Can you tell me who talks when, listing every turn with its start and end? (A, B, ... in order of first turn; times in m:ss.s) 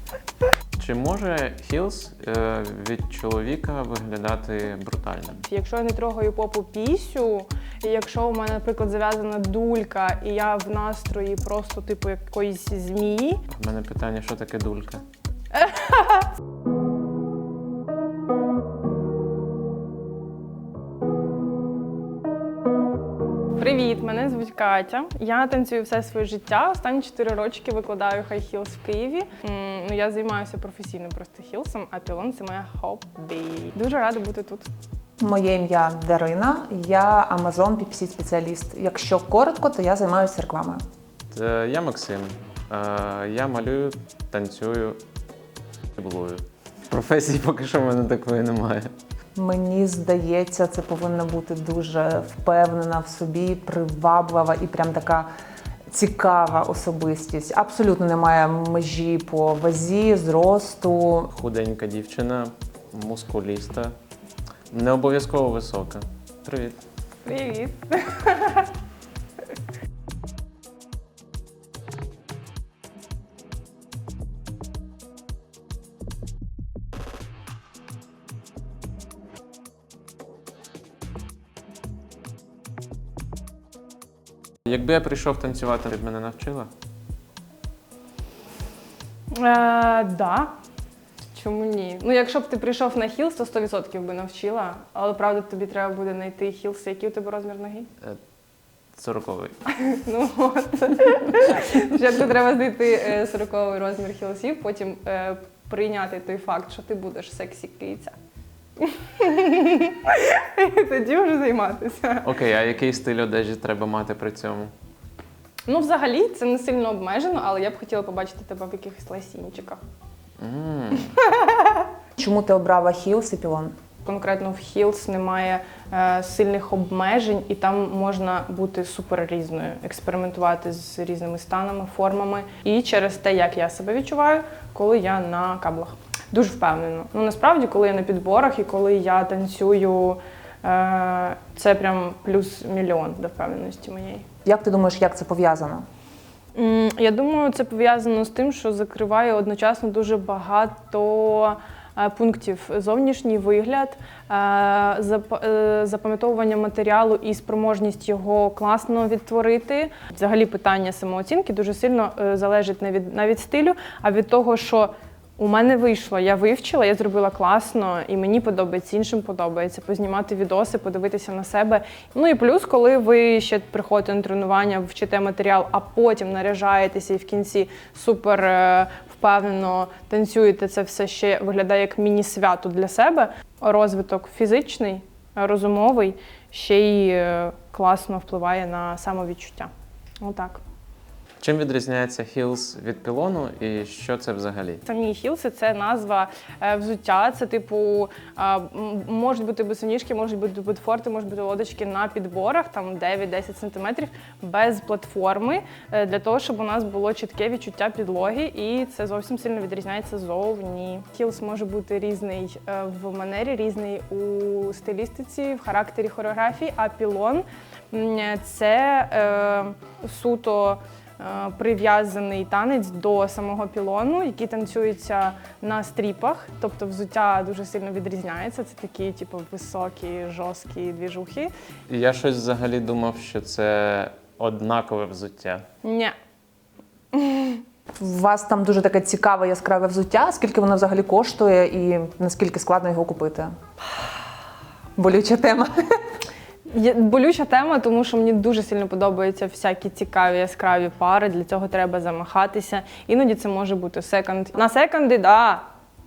0:00.8-0:05.4 A
0:05.4-0:13.4 B
0:13.5-0:15.0 A
0:15.5-0:16.3 B
0:23.6-0:34.7 B
0:35.2-0:40.8 C
0:41.3-0:45.0 A
0:46.0-0:48.9 A
0:49.3-0:55.3 C
0:55.9-1:01.3 C
1:01.3-1:03.9 A
1:04.7-1:06.8 A
1:07.2-1:08.7 B
1:24.6-1:26.7 A
1:29.3-1:30.5 B
1:31.3-1:37.9 B
1:39.0-1:39.5 A
1:39.7-1:48.1 B
1:48.8-1:52.3 B
1:52.2-1:54.7 A
1:55.7-1:59.8 B
2:00.4-2:01.2 A
2:01.1-2:01.9 B
2:02.2-2:03.7 C
2:04.0-2:24.2 B
2:24.4-2:25.8 C
2:26.5-3:09.7 B
3:10.2-3:10.6 B
3:11.4-3:14.8 A
3:14.8-3:51.5 B
3:51.9-3:55.6 A
3:55.8-3:56.1 B
3:57.1-3:57.6 B
3:58.0-4:03.5 C
4:05.0-4:05.7 C
4:06.7-4:15.6 B